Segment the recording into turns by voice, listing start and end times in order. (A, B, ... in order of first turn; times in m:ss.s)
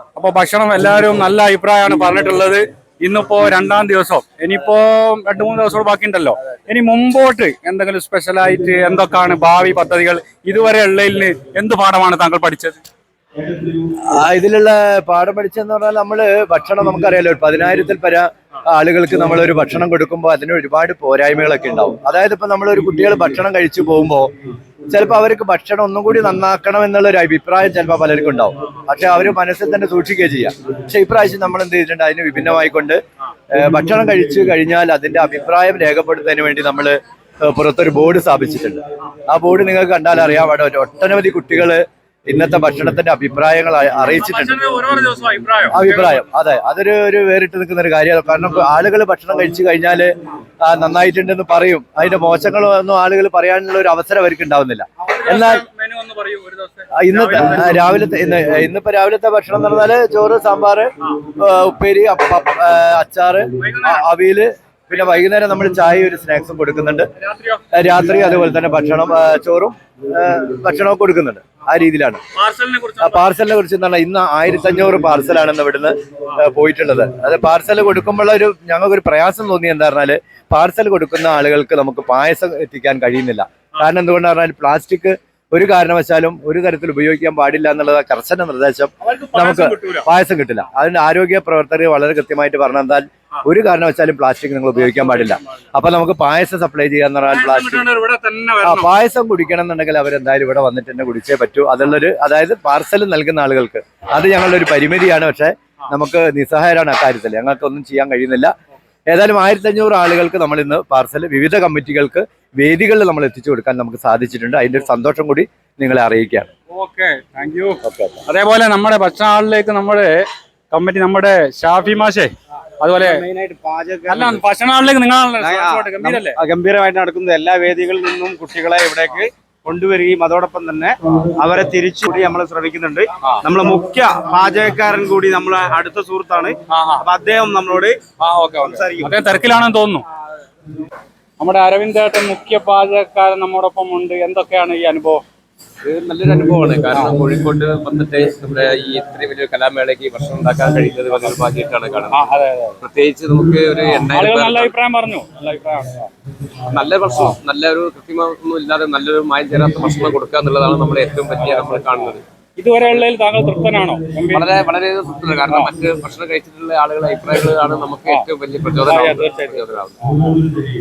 0:00.1-0:12.8 A
0:13.5-0:24.3 B
0:24.9-0:33.0 B
0:33.5-0:44.7 B
0:44.2-0:46.2 A
0:45.7-0:55.6 B
0:55.0-0:57.8 A
0:56.9-1:07.1 B
1:03.6-1:04.0 A
1:04.9-1:05.2 A
1:07.2-1:07.6 A
1:07.7-1:12.2 B
1:12.4-1:13.2 A
1:13.0-1:37.8 B
1:29.0-1:30.0 A
1:34.8-1:35.4 A
1:37.3-1:38.9 A
1:38.6-1:48.5 B
1:49.1-1:56.5 B
1:56.7-2:03.2 A
1:57.8-1:58.2 B
2:03.0-2:04.4 C
2:04.1-2:06.4 A
2:05.4-2:18.0 C
2:16.7-2:17.0 A
2:18.2-2:20.0 A
2:18.6-2:19.1 C
2:21.4-2:25.2 A
2:25.8-2:34.7 D
2:32.1-2:32.8 A
2:34.0-2:36.1 A
2:36.6-2:42.2 D
2:42.6-2:44.5 A
2:44.3-2:49.9 D
2:45.5-2:45.7 A
2:48.8-2:49.6 A